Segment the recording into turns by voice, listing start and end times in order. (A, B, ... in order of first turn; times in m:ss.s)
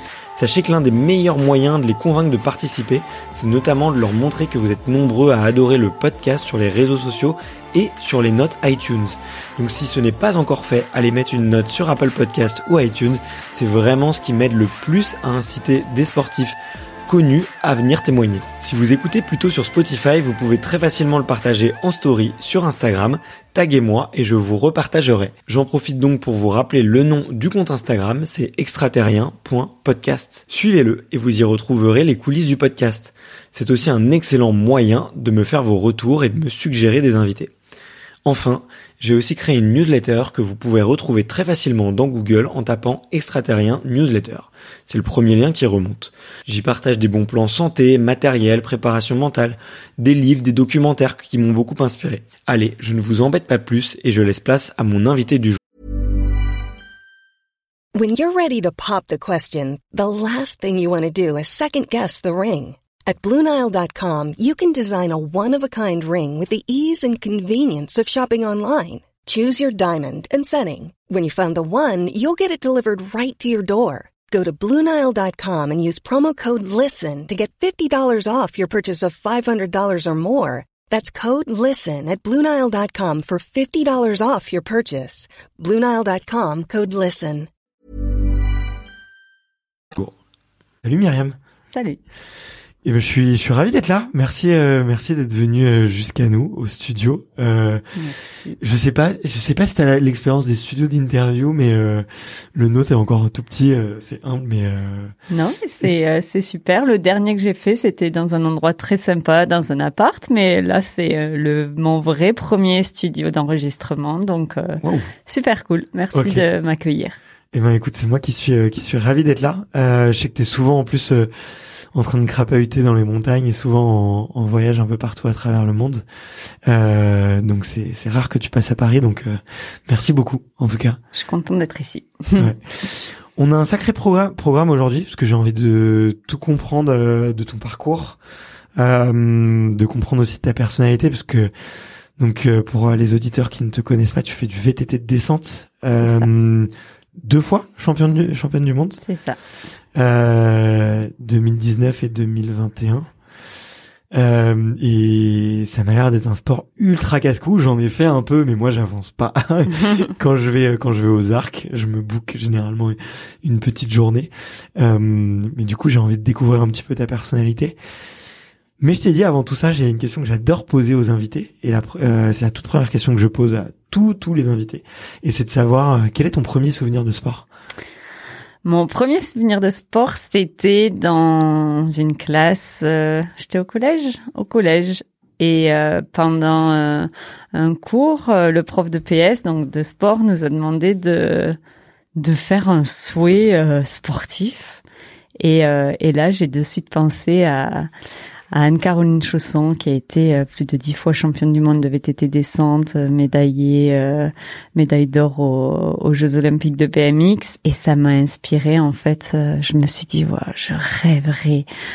0:00.3-0:37.5 A
0:38.2-0:55.6 A
0:58.0-1:27.5 B
1:30.8-1:31.4 A
1:31.7-1:32.0 C
1:32.8-1:37.8 A
1:38.0-1:38.6 C
1:38.6-1:45.1 A
1:45.3-1:57.2 C
1:54.8-1:55.1 A
1:56.1-1:56.4 A
1:57.5-2:01.3 A
2:01.9-2:06.0 A
2:06.7-2:11.0 A
2:11.1-2:12.5 C
2:12.4-2:18.2 A
2:18.8-2:21.5 A
2:22.2-2:29.0 A
2:26.0-2:26.3 C
2:29.0-2:29.4 C
2:29.9-2:33.1 A
2:34.1-2:47.8 A
2:48.8-2:57.4 A
2:58.6-3:11.6 C
3:12.2-3:14.8 C
3:15.4-3:17.9 C
3:18.5-3:31.7 C